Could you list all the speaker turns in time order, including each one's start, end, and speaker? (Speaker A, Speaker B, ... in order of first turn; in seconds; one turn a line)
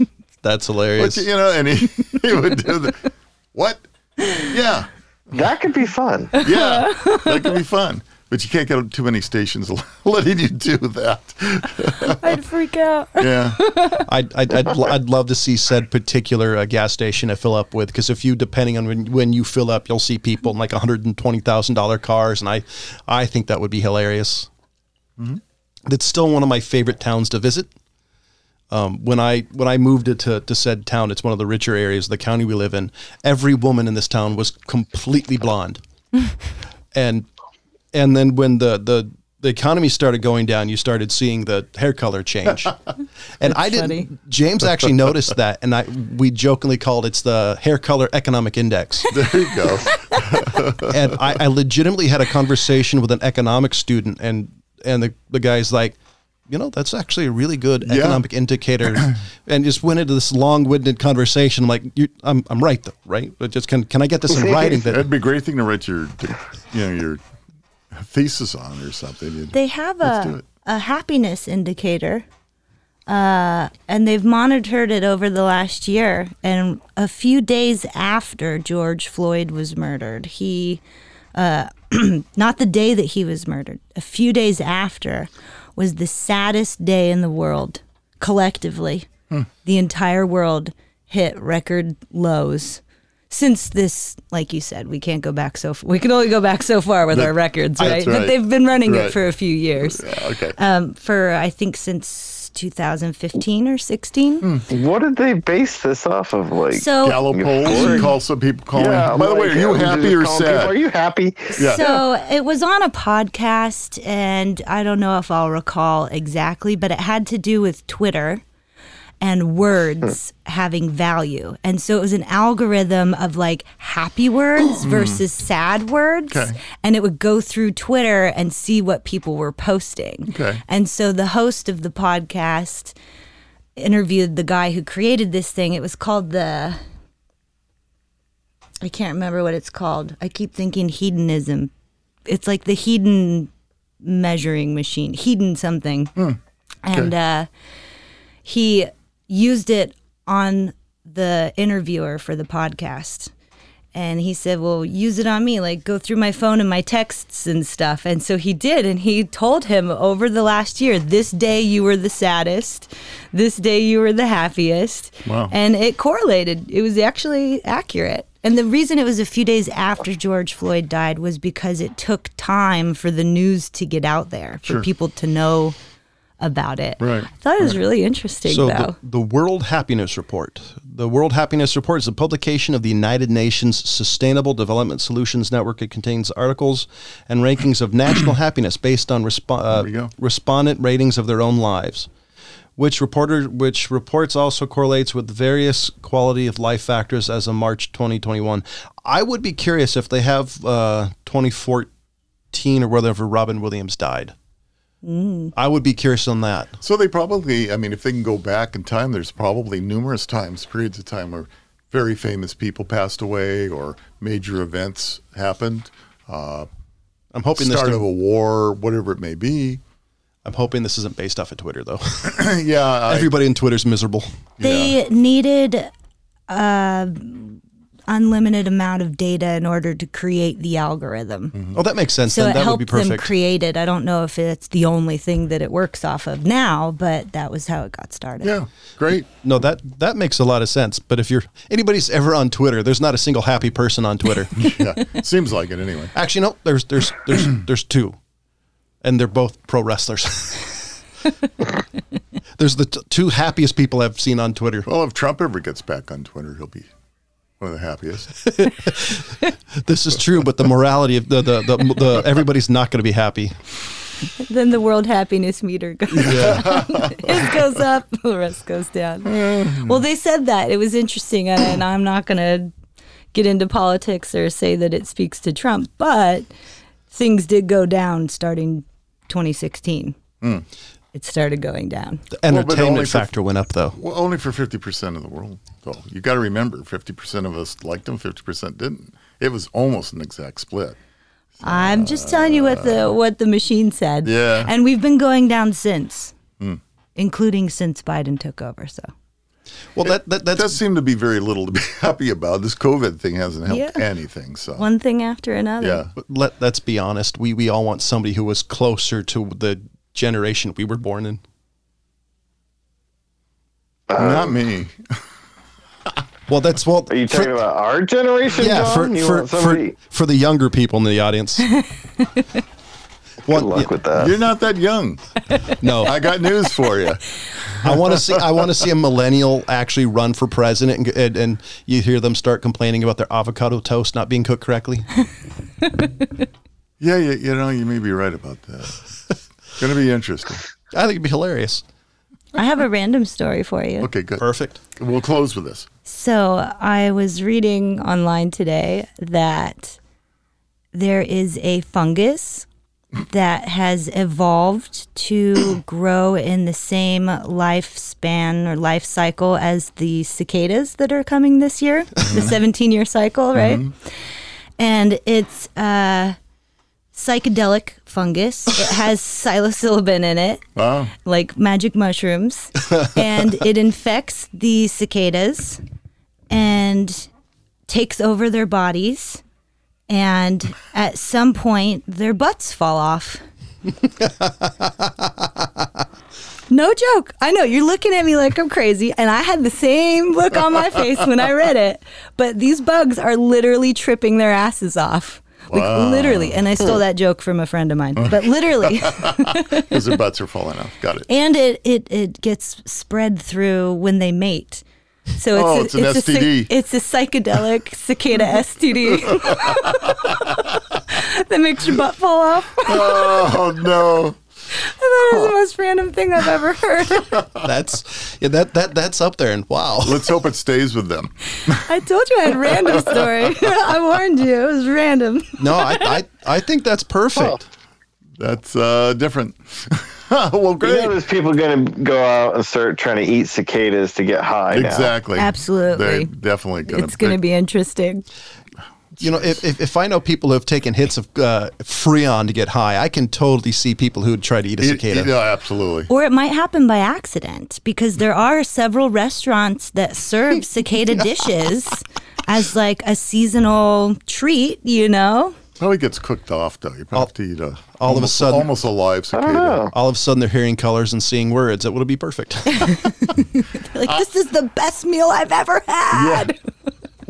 Speaker A: 0.4-1.3
Speaker B: 1.0-5.4
Speaker C: 5.3-6.3
Speaker D: 6.3-7.6
Speaker B: 6.4-12.4
Speaker D: 12.0-14.1
Speaker B: 13.2-13.6
Speaker A: 14.0-24.5
Speaker A: 25.9-27.7
Speaker A: 28.7-35.8
Speaker A: 36.9-37.3
Speaker A: 37.9-42.8
Speaker A: 43.4-49.1
Speaker D: 43.4-44.1
Speaker B: 49.1-51.1
Speaker A: 50.8-56.0
Speaker A: 56.5-65.1
Speaker B: 57.8-58.2
Speaker C: 64.3-64.8
Speaker B: 64.8-67.2
Speaker B: 67.9-70.4
Speaker D: 69.5-72.2
Speaker D: 73.1-80.8
Speaker D: 81.3-89.1
Speaker D: 89.6-104.5
Speaker B: 97.1-99.2
Speaker B: 99.8-100.6
Speaker C: 104.7-108.1
Speaker D: 106.7-108.1
Speaker B: 107.0-110.8
Speaker C: 108.8-111.8
Speaker D: 111.5-118.4
Speaker B: 111.6-112.0
Speaker D: 119.2-133.0
Speaker B: 124.8-125.2
Speaker B: 126.3-126.6
Speaker B: 130.3-130.6
Speaker D: 133.8-136.8
Speaker D: 138.8-141.7
Speaker D: 142.3-143.5
Speaker D: 144.0-146.2
Speaker D: 146.8-147.5
Speaker D: 148.4-153.3
Speaker D: 153.9-175.8
Speaker B: 165.3-165.5
Speaker D: 176.4-178.9
Speaker B: 177.0-177.3
Speaker A: 178.5-192.1
Speaker B: 189.7-190.1
Speaker A: 192.8-201.9
Speaker A: 202.5-204.3
Speaker D: 205.0-205.5
Speaker A: 205.6-206.8
Speaker B: 206.8-216.7
Speaker A: 217.3-218.1
Speaker B: 217.6-219.8
Speaker A: 220.4-222.5
Speaker B: 222.2-223.3
Speaker A: 223.1-224.3
Speaker B: 224.6-224.9
Speaker D: 224.6-225.9
Speaker D: 226.5-231.6
Speaker B: 231.5-231.8
Speaker A: 231.7-233.3
Speaker D: 232.2-238.6
Speaker B: 238.4-239.3
Speaker A: 239.4-244.8
Speaker B: 244.6-246.1
Speaker A: 246.2-248.2
Speaker A: 249.0-250.8
Speaker A: 252.6-254.9
Speaker B: 254.9-256.9
Speaker B: 257.6-258.4
Speaker A: 258.4-263.6
Speaker D: 264.4-272.7
Speaker A: 266.1-266.7
Speaker B: 266.2-267.4
Speaker B: 269.2-270.0
Speaker D: 273.3-276.5
Speaker D: 277.1-280.2
Speaker D: 281.1-282.3
Speaker A: 282.3-284.0
Speaker B: 282.5-283.4
Speaker B: 283.9-291.0
Speaker B: 291.6-293.1
Speaker D: 291.6-296.3
Speaker B: 294.2-294.7
Speaker D: 297.2-299.1
Speaker A: 299.9-300.8
Speaker B: 300.5-304.9
Speaker D: 303.7-304.0
Speaker D: 304.8-306.1
Speaker B: 305.8-306.1
Speaker A: 306.2-311.4
Speaker C: 314.1-314.5
Speaker B: 314.2-315.2
Speaker A: 316.5-317.6
Speaker C: 317.1-319.9
Speaker A: 318.6-321.7
Speaker D: 321.8-322.5
Speaker A: 323.4-323.9
Speaker C: 323.5-324.4
Speaker B: 324.2-325.3
Speaker A: 325.8-326.1
Speaker B: 326.0-327.2
Speaker A: 327.8-335.1
Speaker B: 327.8-328.6
Speaker B: 337.0-339.0
Speaker B: 339.8-340.6
Speaker A: 340.9-341.8
Speaker D: 342.6-344.1
Speaker B: 344.0-344.4
Speaker A: 344.4-344.8
Speaker B: 344.9-345.9
Speaker D: 346.1-350.0
Speaker D: 350.9-352.7
Speaker D: 353.3-363.9
Speaker B: 362.3-362.6
Speaker B: 363.6-363.9
Speaker D: 364.8-366.4
Speaker D: 367.1-370.7
Speaker B: 370.8-371.1
Speaker D: 371.2-375.8
Speaker D: 376.5-377.3
Speaker D: 377.9-379.4
Speaker D: 380.1-383.4
Speaker A: 384.2-385.8
Speaker D: 386.7-400.1
Speaker B: 395.7-396.6
Speaker B: 398.2-401.3
Speaker D: 401.3-404.8
Speaker D: 405.4-413.6
Speaker B: 405.5-406.7
Speaker B: 409.5-410.4
Speaker B: 412.9-414.4
Speaker D: 414.7-417.4
Speaker A: 417.6-420.3
Speaker B: 420.0-421.9
Speaker D: 421.7-426.2
Speaker A: 425.6-427.7
Speaker B: 428.4-431.2
Speaker C: 430.8-435.1
Speaker B: 434.7-437.4
Speaker D: 435.4-436.3
Speaker D: 436.9-438.2
Speaker B: 439.1-439.6
Speaker A: 439.2-445.3
Speaker B: 444.8-446.1
Speaker D: 446.1-455.6
Speaker A: 451.1-451.5
Speaker B: 455.8-459.9
Speaker A: 458.0-458.7
Speaker C: 459.3-459.9
Speaker A: 459.9-462.9
Speaker D: 462.7-466.6
Speaker B: 466.1-466.5